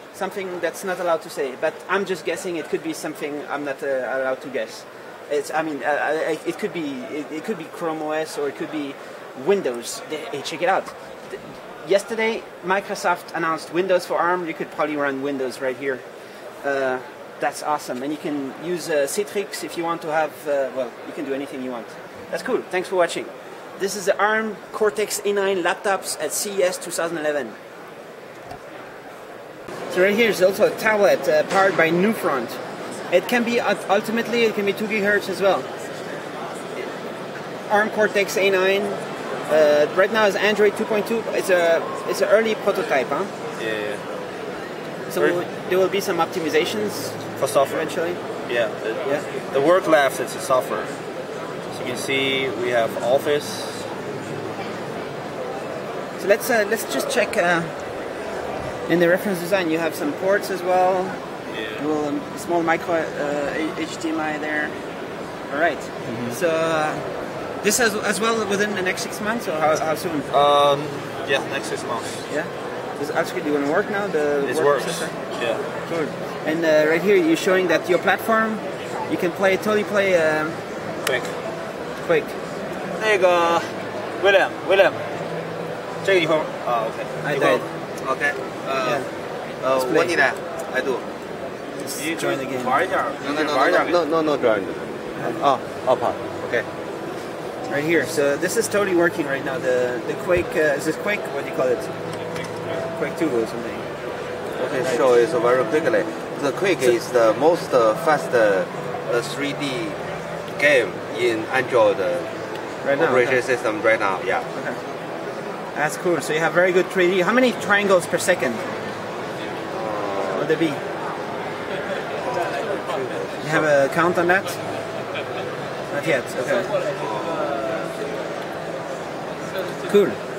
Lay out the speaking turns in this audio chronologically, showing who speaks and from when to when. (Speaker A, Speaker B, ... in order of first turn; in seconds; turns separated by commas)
Speaker A: 0.1-27.6, Speaker A: 29.9-35.7, Speaker A: 37.7-43.3, Speaker B: 43.6-44.0, Speaker A: 45.1-48.2, Speaker B: 45.1-45.4, Speaker B: 47.4-50.9, Speaker B: 51.7-53.9, Speaker A: 56.2-57.8, Speaker A: 58.9-61.2, Speaker B: 61.5-61.9, Speaker A: 61.7-64.8, Speaker A: 65.5-70.3, Speaker B: 66.0-66.4, Speaker B: 70.3-72.2, Speaker A: 72.3-80.6, Speaker B: 74.4-75.7, Speaker B: 81.0-81.3, Speaker A: 82.0-82.3, Speaker B: 82.9-85.0, Speaker B: 86.0-87.7, Speaker A: 87.2-87.6, Speaker C: 88.0-89.1, Speaker A: 88.8-89.1, Speaker C: 89.6-91.0, Speaker A: 89.6-90.3, Speaker A: 91.8-92.8, Speaker B: 91.9-94.0, Speaker C: 93.2-96.7, Speaker A: 95.2-95.4, Speaker A: 97.7-101.9, Speaker B: 102.4-102.8, Speaker A: 102.7-103.9, Speaker B: 104.5-104.9, Speaker C: 104.6-110.0, Speaker A: 104.6-105.0, Speaker C: 110.5-112.3, Speaker A: 112.8-113.4, Speaker C: 112.9-114.5, Speaker A: 114.5-114.8, Speaker A: 115.7-118.7, Speaker C: 119.7-120.5, Speaker A: 120.3-120.8, Speaker C: 122.5-123.7, Speaker A: 123.4-124.6, Speaker A: 125.9-126.8, Speaker C: 127.0-127.7, Speaker A: 129.8-130.2